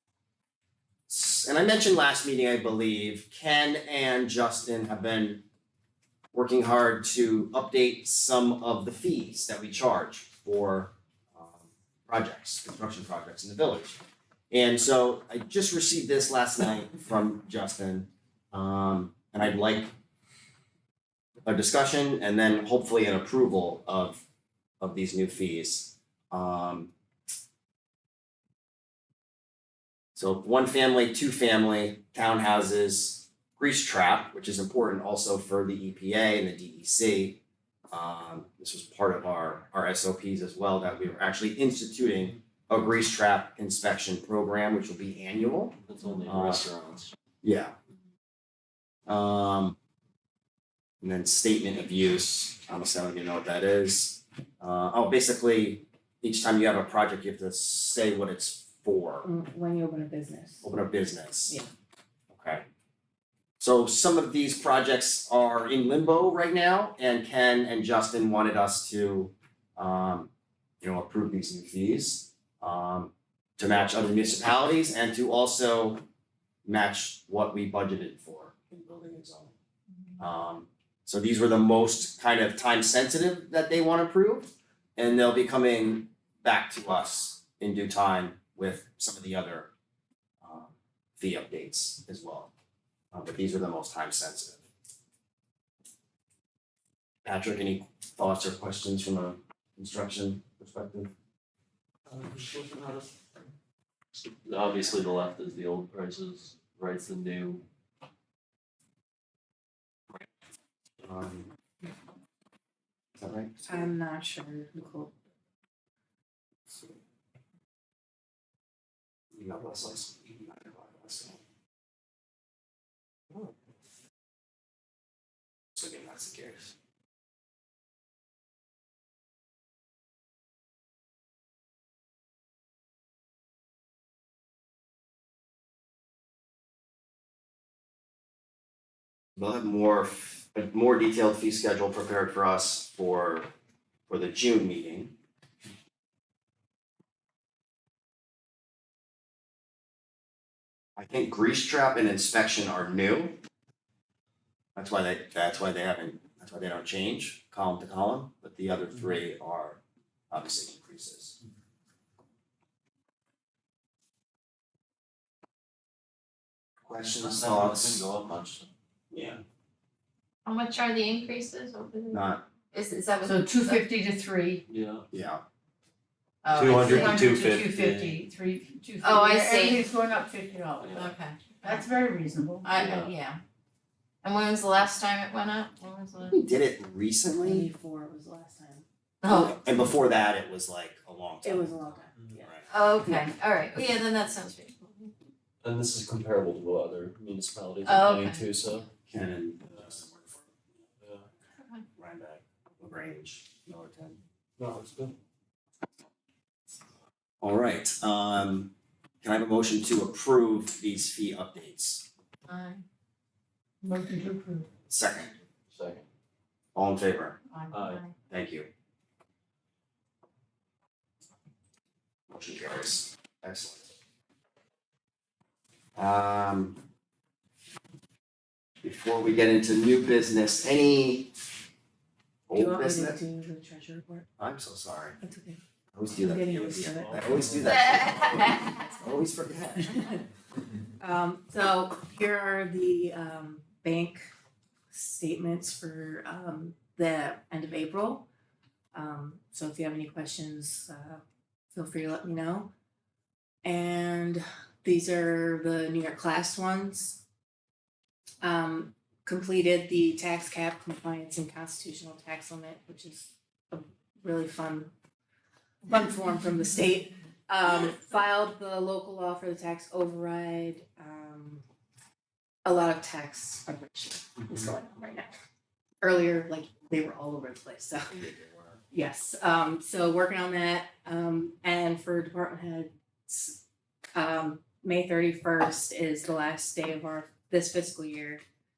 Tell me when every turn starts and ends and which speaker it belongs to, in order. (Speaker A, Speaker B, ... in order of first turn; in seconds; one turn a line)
Speaker A: 1.1-5.4
Speaker A: 6.3-14.0
Speaker A: 14.5-19.9
Speaker A: 21.4-24.2
Speaker A: 24.8-26.9
Speaker A: 30.1-46.6
Speaker B: 45.9-47.1
Speaker A: 47.4-47.8
Speaker A: 49.1-49.8
Speaker A: 51.0-59.3
Speaker C: 59.2-60.7
Speaker A: 60.6-61.5
Speaker A: 62.3-62.6
Speaker A: 63.6-76.0
Speaker A: 76.7-79.5
Speaker A: 80.2-89.7
Speaker A: 90.4-92.5
Speaker A: 93.1-94.6
Speaker A: 97.2-101.1
Speaker B: 102.1-103.0
Speaker B: 104.2-107.6
Speaker A: 111.0-111.5
Speaker A: 113.2-113.9
Speaker C: 113.6-115.1
Speaker A: 119.4-121.4
Speaker A: 125.8-126.7
Speaker A: 139.4-143.5
Speaker A: 144.1-145.2
Speaker A: 151.0-153.4
Speaker A: 154.8-159.8
Speaker A: 160.3-161.4
Speaker A: 166.8-168.1
Speaker B: 167.2-168.7
Speaker A: 169.1-169.4
Speaker D: 170.4-173.8
Speaker A: 172.1-172.4
Speaker E: 173.3-174.6
Speaker B: 174.7-175.0
Speaker A: 175.1-175.4
Speaker D: 176.4-177.4
Speaker B: 176.5-178.2
Speaker E: 176.7-180.9
Speaker D: 179.0-179.8
Speaker B: 180.8-181.1
Speaker D: 180.9-181.8
Speaker E: 181.6-182.7
Speaker D: 182.6-183.4
Speaker B: 182.8-183.1
Speaker D: 184.2-186.4
Speaker A: 186.3-187.7
Speaker C: 187.3-188.8
Speaker D: 189.2-189.6
Speaker A: 189.3-191.8
Speaker C: 191.4-193.2
Speaker D: 192.7-195.1
Speaker B: 195.6-198.9
Speaker D: 197.8-198.4
Speaker A: 199.1-200.4
Speaker B: 201.0-201.3
Speaker A: 202.0-204.2
Speaker B: 204.6-205.1
Speaker A: 207.4-212.1
Speaker D: 212.5-212.8
Speaker E: 213.8-214.7
Speaker A: 214.9-215.3
Speaker B: 215.7-216.0
Speaker A: 216.7-217.4
Speaker D: 217.5-218.1
Speaker B: 217.7-218.0
Speaker A: 218.3-218.7
Speaker A: 222.3-223.9
Speaker A: 225.9-226.8
Speaker A: 228.8-231.3
Speaker A: 232.5-233.2
Speaker C: 232.5-234.3
Speaker A: 234.4-235.2
Speaker C: 235.2-235.6
Speaker A: 235.9-240.0
Speaker C: 236.2-237.4
Speaker B: 237.0-238.2
Speaker D: 237.6-238.7
Speaker C: 239.9-240.2
Speaker C: 241.0-244.3
Speaker C: 244.9-248.3
Speaker C: 248.9-252.7
Speaker C: 253.6-257.2
Speaker C: 258.4-264.9
Speaker C: 265.8-271.6
Speaker C: 272.6-275.3
Speaker C: 276.0-278.1
Speaker A: 278.1-278.8
Speaker C: 278.9-288.4